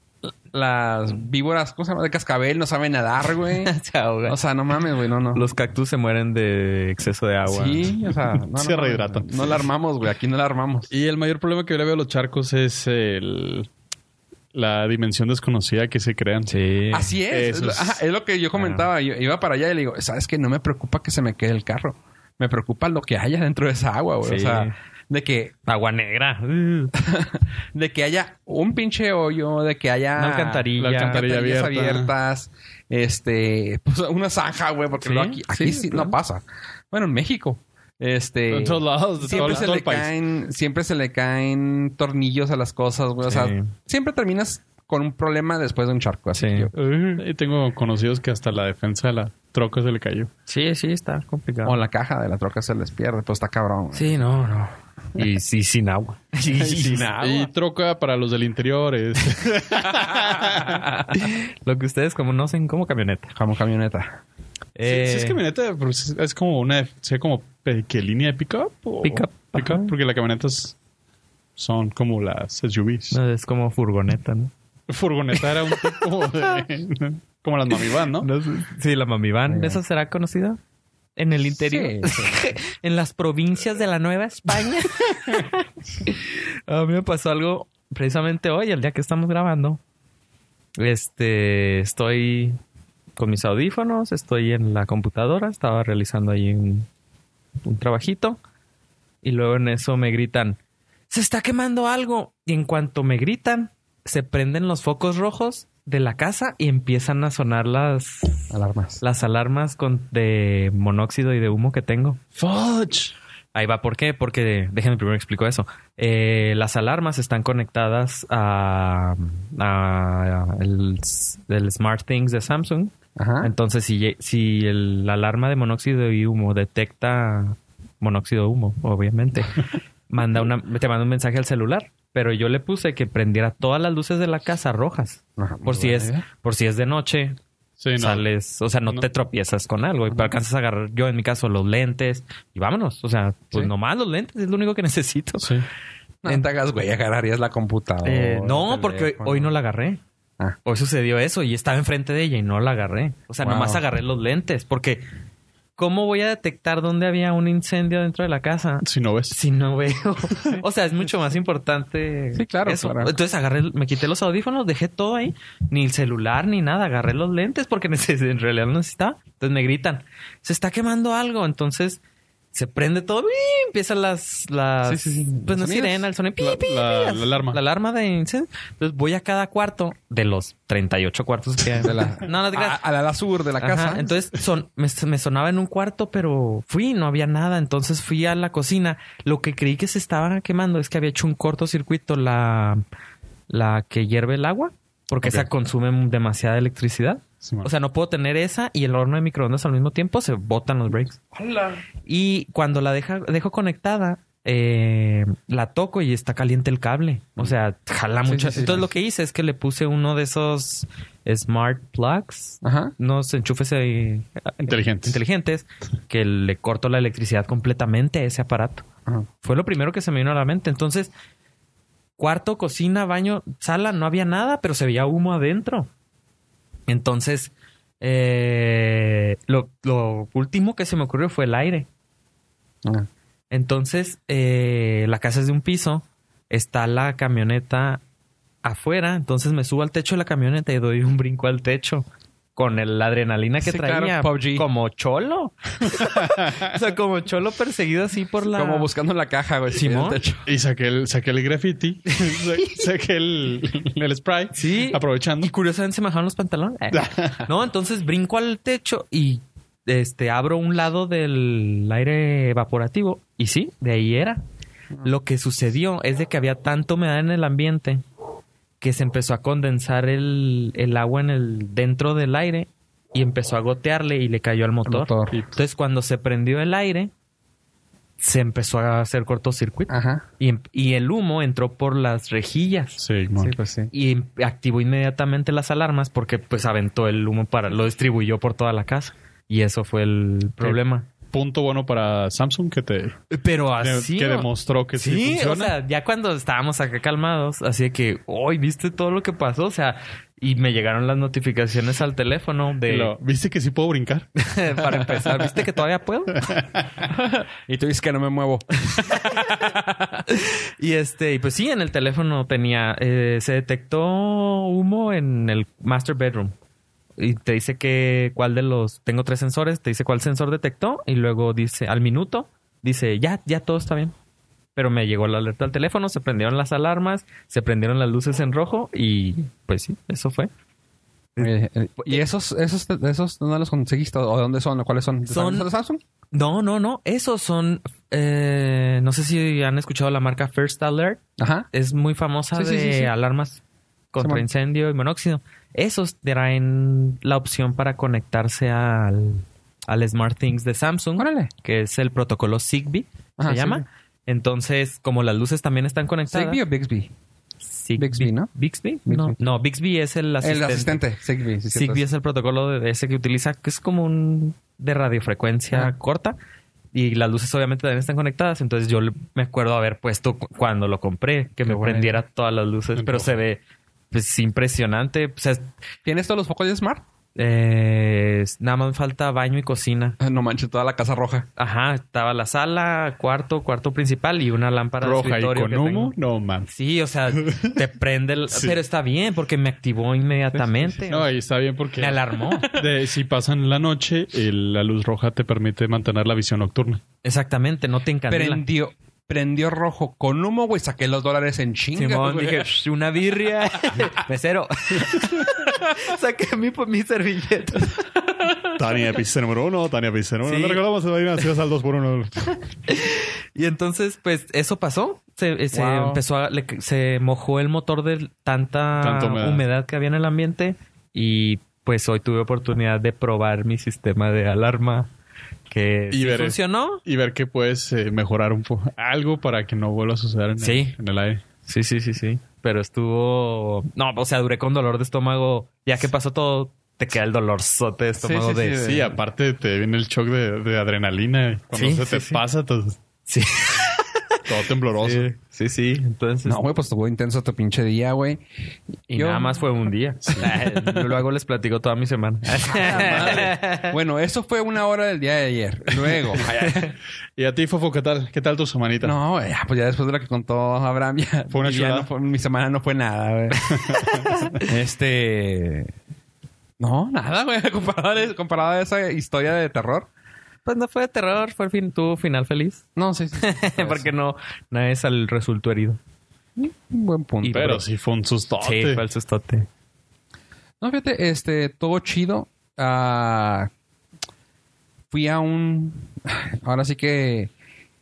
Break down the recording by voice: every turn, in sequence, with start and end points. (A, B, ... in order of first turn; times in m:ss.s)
0:00.5-0:03.7 A
0:03.6-0:04.4 B
0:04.2-0:05.4 A
0:05.3-0:07.9 B
0:07.4-0:10.9 A
0:08.3-0:09.7 C
0:10.9-0:13.7 C
0:14.5-0:16.5 C
0:16.5-0:17.1 B
0:16.9-0:25.5 A
0:17.3-0:18.0 C
0:18.6-0:18.8 B
0:24.2-0:24.7 B
0:25.6-0:26.9 B
0:26.9-0:46.7 A
0:30.2-0:31.2 B
0:30.8-0:32.1 C
0:35.0-0:36.2 B
0:38.5-0:40.1 C
0:39.2-0:39.7 B
0:43.2-0:43.7 B
0:46.3-0:46.7 B
0:46.7-0:50.3 C
0:50.5-0:51.8 B
0:51.6-0:54.1 A
0:53.9-0:57.1 B
0:56.5-0:57.5 A
0:57.2-1:00.8 C
0:59.8-1:01.0 A
1:01.1-1:03.3 B
1:03.4-1:04.2 A
1:04.7-1:05.4 B
1:04.8-1:10.8 C
1:09.0-1:09.9 B
1:11.6-1:13.2 C
1:13.1-1:14.5 B
1:14.9-1:18.3 C
1:15.3-1:16.0 B
1:17.7-1:20.6 B
1:19.5-1:19.8 A
1:21.2-1:29.8 B
1:21.6-1:22.5 A
1:30.8-1:32.6 B
1:33.2-1:36.9 B
1:37.6-1:38.4 B
1:39.2-1:40.6 B
1:41.1-1:52.2 B
1:48.5-1:49.0 A
1:52.3-1:53.1 C
1:53.5-2:17.4 B
2:03.2-2:03.5 A
2:15.4-2:16.2 A
2:17.8-2:18.2 C
2:18.0-2:25.5 B
2:25.4-2:25.6 C
2:26.2-2:29.5 A
2:28.0-2:30.0 B
2:30.6-2:35.0 B
2:33.4-2:33.8 A
2:35.8-2:52.0 B
2:38.8-2:39.4 C
2:42.3-2:43.1 A
2:52.5-3:02.8 B
2:54.8-2:56.1 A
2:56.4-2:57.6 C
3:01.8-3:04.1 A
3:03.6-3:12.8 B
3:13.5-3:21.2 B
3:17.4-3:17.7 C
3:21.3-3:21.8 A
3:22.0-3:38.8 B
3:28.3-3:28.8 A
3:32.6-3:32.9 A
3:34.6-3:35.2 C
3:39.4-3:41.1 B
3:42.2-3:45.9 B
3:46.9-3:51.9 B
3:53.5-3:58.0 B
3:58.6-4:08.9 B
4:03.6-4:04.7 A
4:08.4-4:10.5 A
4:09.7-4:10.2 B
4:10.4-4:15.5 C
4:12.3-4:12.8 B
4:14.5-4:24.4 B
4:16.9-4:17.5 C
4:25.0-4:28.0 B
4:28.8-4:37.1 B
4:34.8-4:35.4 A
4:38.2-4:43.0 B
4:39.9-4:40.2 A
4:43.0-4:43.5 C
4:43.4-4:43.9 A
4:43.9-4:51.1 B
4:51.3-4:53.2 C
4:53.3-5:03.1 B
4:53.8-4:55.8 C
5:02.9-5:04.3 C
5:04.4-5:06.4 B
5:06.3-5:06.8 C
5:07.0-5:10.2 A
5:09.1-5:09.4 B
5:10.3-5:16.5 B
5:17.2-5:24.1 B
5:24.8-5:30.5 B
5:31.4-5:32.2 B
5:31.4-5:36.0 A
5:35.3-5:35.7 B
5:36.3-5:41.2 B
5:41.4-5:41.7 A
5:41.7-5:43.6 B
5:42.5-5:43.1 A
5:44.1-5:56.6 B
5:44.2-5:44.4 A
5:51.2-5:51.5 A
5:53.4-5:53.8 A
5:56.3-5:57.1 A
5:57.6-6:01.0 B
5:58.0-5:58.5 A
5:59.0-5:59.5 A
6:00.4-6:02.0 A
6:01.7-6:06.4 B
6:06.9-6:13.6 B
6:11.6-6:12.2 A
6:13.0-6:13.3 C
6:14.1-6:15.7 B
6:16.0-6:17.0 A
6:17.3-6:20.2 B
6:20.2-6:21.5 A
6:21.6-6:26.1 B
6:25.0-6:26.7 C
6:26.7-6:31.3 B
6:27.4-6:27.7 C
6:28.5-6:28.8 C
6:31.0-6:37.0 C
6:32.0-6:32.7 B
6:37.2-6:38.6 B
6:38.3-6:42.7 A
6:41.9-6:48.0 B
6:48.7-6:52.6 C
6:50.4-6:50.8 B
6:52.9-7:05.1 B
6:55.7-6:56.2 A
6:59.0-6:59.6 C
7:05.7-7:07.0 B
7:06.1-7:11.4 C
7:10.6-7:10.9 B
7:11.6-7:18.9 B
7:18.2-7:19.2 A
7:18.7-7:23.0 C
7:21.7-7:22.4 B
7:23.2-7:24.4 B
7:24.4-7:25.3 C
7:25.0-7:26.6 B
7:26.4-7:28.4 A
7:29.1-7:33.9 B
7:29.1-7:29.6 A
7:30.2-7:31.0 C
7:32.6-7:36.9 A
7:32.7-7:33.5 C
7:36.5-7:36.9 B
7:37.4-7:39.2 C
7:39.0-7:45.9 A
7:41.5-7:42.1 C
7:43.7-7:44.4 C
7:44.2-7:44.5 B
7:46.8-7:50.1 A
7:50.6-7:52.8 B
7:53.0-7:54.1 A
7:53.4-7:56.0 B
7:56.6-7:57.8 A
7:57.4-7:59.0 C
7:58.6-7:59.7 B
8:00.8-8:03.7 A
8:05.1-8:07.5 A